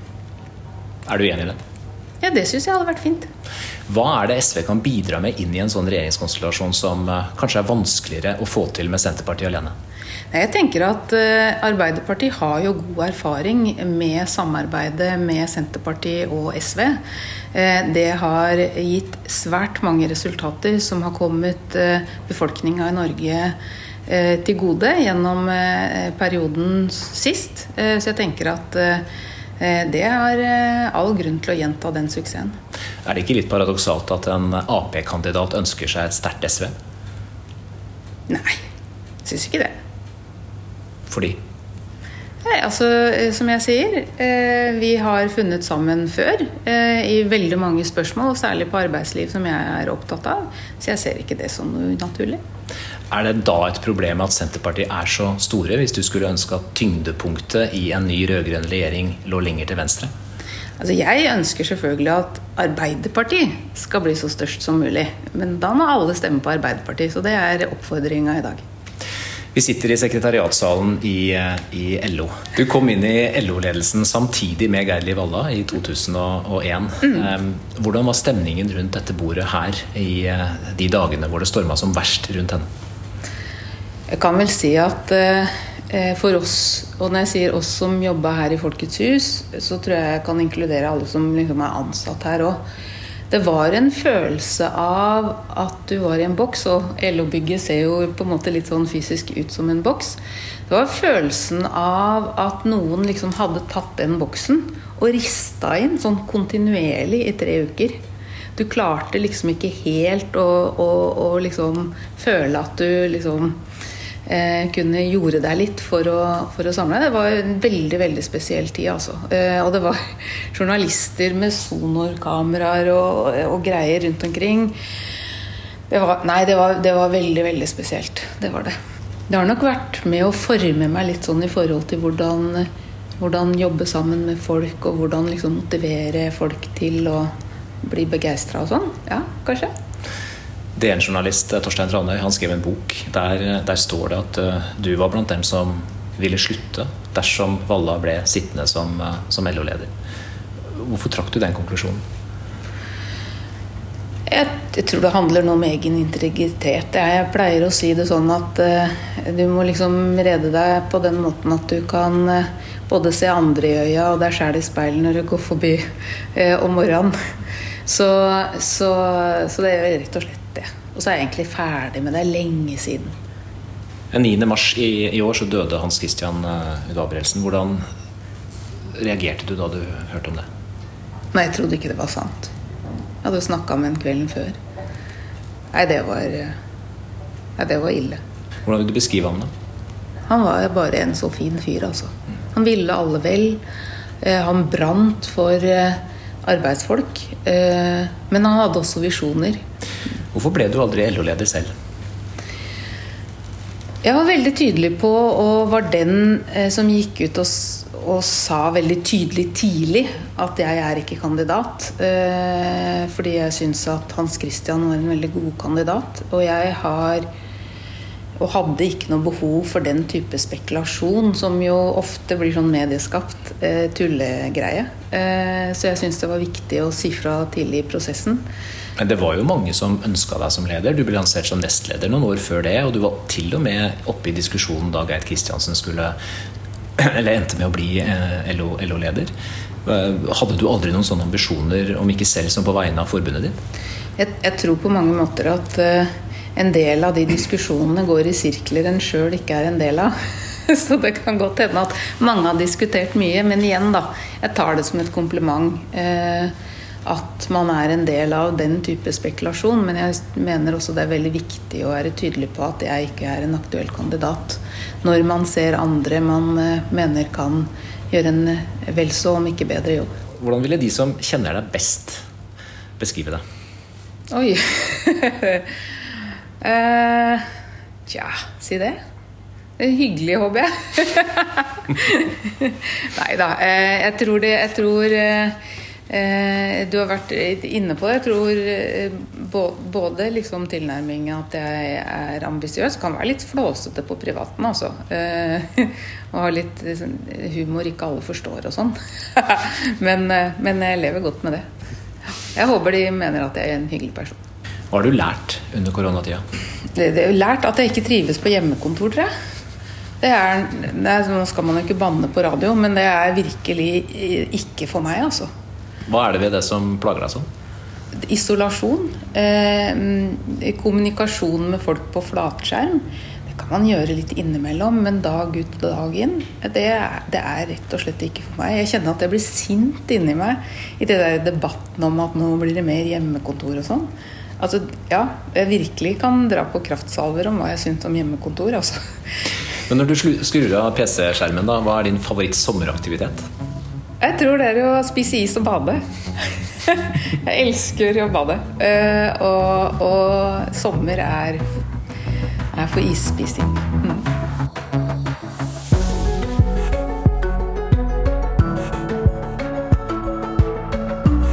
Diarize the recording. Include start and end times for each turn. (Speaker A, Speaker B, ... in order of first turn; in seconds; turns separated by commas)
Speaker A: 1.1-1.6, Speaker B: 2.2-3.3, Speaker A: 3.9-9.7, Speaker B: 10.3-17.0, Speaker B: 17.5-29.1, Speaker B: 29.6-32.6, Speaker A: 33.1-36.7, Speaker B: 38.3-38.6, Speaker B: 39.2-39.8, Speaker A: 41.1-41.4, Speaker B: 42.4-52.4, Speaker A: 53.1-60.1, Speaker B: 60.8-68.6, Speaker A: 69.5-82.7, Speaker B: 84.1-92.6, Speaker B: 93.3-108.0, Speaker B: 108.6-113.6, Speaker B: 114.3-124.8, Speaker B: 125.9-128.8, Speaker B: 129.3-132.7, Speaker B: 133.2-139.7, Speaker A: 140.8-149.9, Speaker A: 150.7-152.0, Speaker B: 154.3-167.2, Speaker B: 167.9-173.2, Speaker A: 174.1-177.9, Speaker A: 179.0-180.5, Speaker B: 181.3-182.5, Speaker B: 183.2-184.6, Speaker B: 185.7-186.6, Speaker B: 187.6-188.2, Speaker A: 188.7-189.5, Speaker B: 190.3-193.6, Speaker B: 194.2-199.6, Speaker A: 200.3-201.7, Speaker B: 204.0-217.3, Speaker B: 218.4-228.4, Speaker A: 229.0-236.2, Speaker A: 237.0-239.3, Speaker A: 239.8-243.6, Speaker B: 244.2-250.2, Speaker B: 250.7-256.5, Speaker B: 257.1-270.1, Speaker A: 270.4-272.2, Speaker A: 273.0-273.4, Speaker B: 274.3-275.7, Speaker B: 276.6-277.5, Speaker B: 278.1-279.0, Speaker B: 279.8-285.6, Speaker B: 286.1-301.7, Speaker B: 302.6-304.4, Speaker A: 304.9-306.4, Speaker B: 306.9-309.3, Speaker B: 310.2-315.5, Speaker A: 316.1-317.5, Speaker B: 318.2-339.0, Speaker A: 339.9-343.4, Speaker B: 344.2-346.0, Speaker B: 346.9-351.6, Speaker B: 352.7-354.2